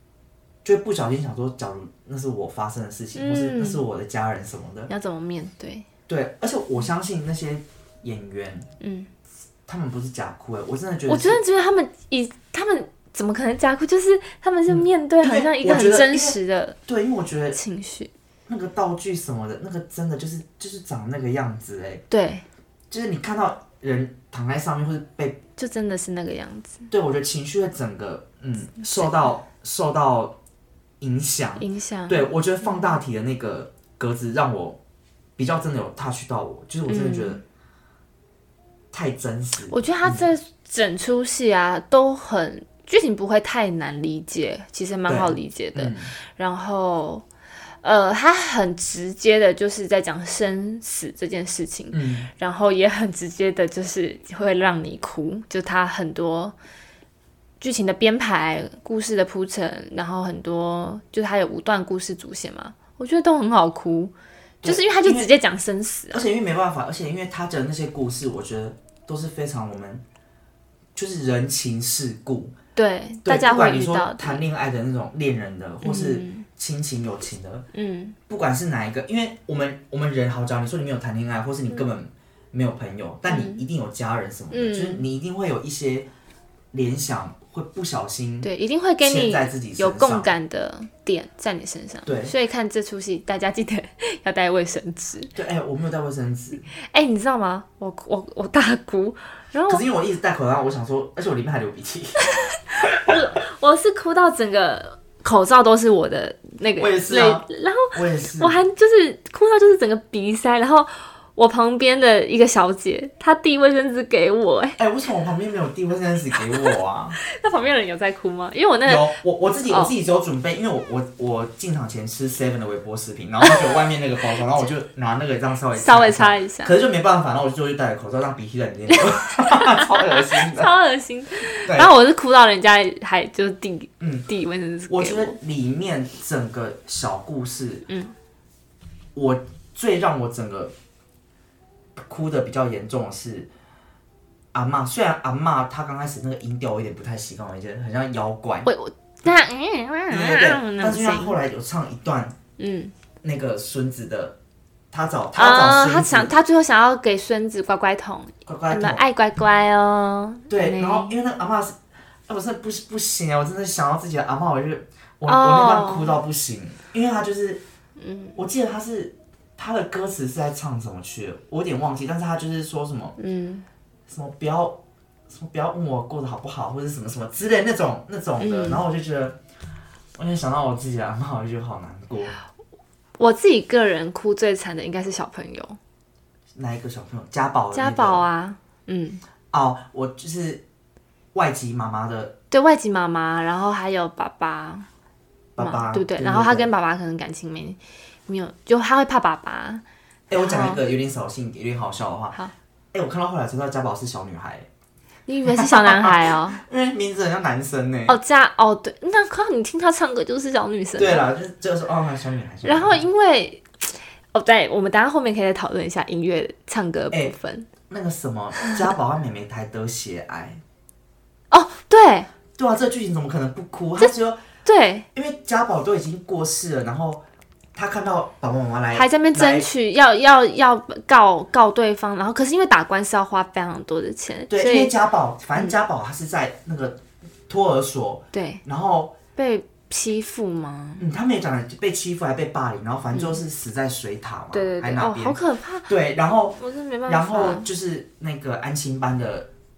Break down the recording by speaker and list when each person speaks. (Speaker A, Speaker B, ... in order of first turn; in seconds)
Speaker A: 0.6-4.9, 6.1-8.7, 9.7-11.4, 14.7-17.6, 18.5-22.0, 22.9-25.4, 26.9-30.4, 31.0-34.8, 35.4-37.4, 38.9-40.3, 45.1-46.1, 51.9-52.3, 64.6-65.3, 66.1-70.0, 70.9-72.5, 73.2-77.7, 78.3-86.1, 86.7-88.5, 89.0-90.3, 92.0-92.3, 95.3-96.7, 99.7-102.2, 106.8-108.5, 114.8-117.2, 118.8-130.7, 131.7-131.9, 134.0-134.3, 134.9-137.9, 139.1-140.7, 142.0-143.5, 144.5-148.7, 150.1-152.4, 153.2-154.4, 154.9-156.3, 158.4-159.0, 160.5-161.8, 162.3-167.6, 168.3-173.2, 174.1-179.4, 180.2-182.4, 186.5-188.2, 189.5-190.6, 191.3-192.3, 195.5-196.7, 200.3-202.4, 202.9-204.7, 205.5-208.2, 211.0-213.0, 217.9-220.6, 222.6-224.4, 225.1-227.2, 227.7-229.7, 234.5-239.1, 241.0-249.5
Speaker B: 3.1-3.8, 4.9-5.8, 8.8-9.1, 11.1-16.8, 17.5-18.1, 22.1-22.4, 25.6-26.9, 28.8-29.1, 31.6-32.9, 36.9-37.4, 39.7-47.2, 47.8-56.5, 57.6-66.2, 72.8-74.4, 75.8-76.5, 77.7-78.2, 83.3-83.6, 84.5-85.0, 88.4-95.3, 96.9-99.8, 102.4-114.8, 117.2-119.2, 125.7-126.7, 128.9-135.3, 148.6-151.4, 152.6-152.9, 155.3-161.1, 165.2-166.2, 168.0-168.3, 173.2-173.7, 178.4-178.8, 183.2-185.8, 187.7-189.2, 192.5-194.9, 195.6-200.8, 205.3-206.6, 208.1-211.3, 212.6-213.6, 214.3-217.7, 221.5-222.3, 224.6-225.1, 228.9-234.9, 238.3-238.6, 239.3-241.0, 243.1-243.4, 244.5-245.9, 246.6-247.7